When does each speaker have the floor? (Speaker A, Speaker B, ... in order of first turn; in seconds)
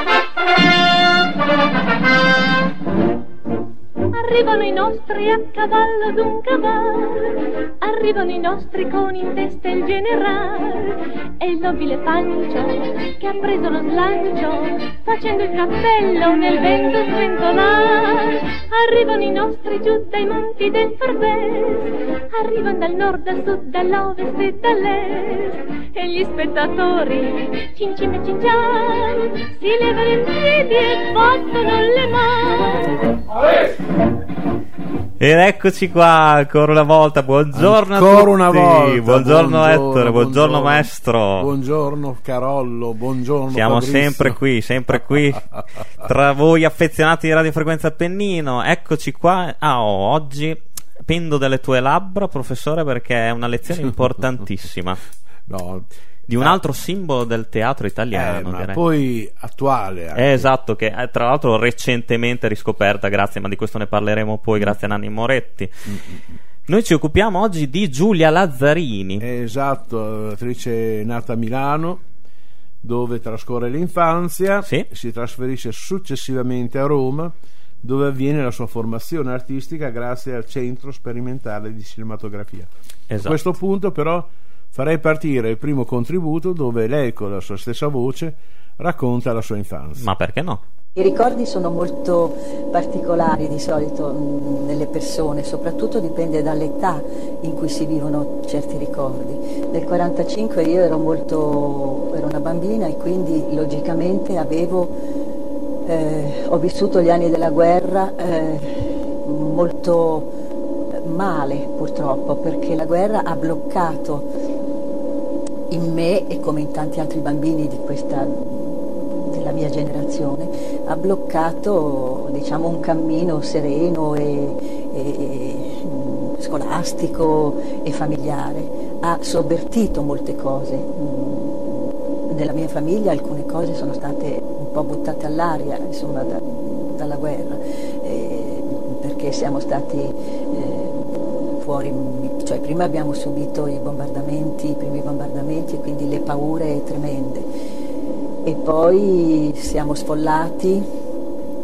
Speaker A: 4.1-33.0
Speaker B: 35.2-41.5, 43.5-45.5, 46.0-55.0, 56.3-58.8, 60.1-65.7, 66.7-69.2, 83.1-83.4, 90.0-90.6
Speaker C: 37.5-44.4, 44.9-45.4, 55.5-55.9, 58.1-60.5, 65.9-66.2, 69.2-72.0, 72.8-82.7, 83.2-90.1
Speaker D: 91.0-104.9, 105.8-110.3, 110.9-114.3, 115.7-147.5, 148.4-150.9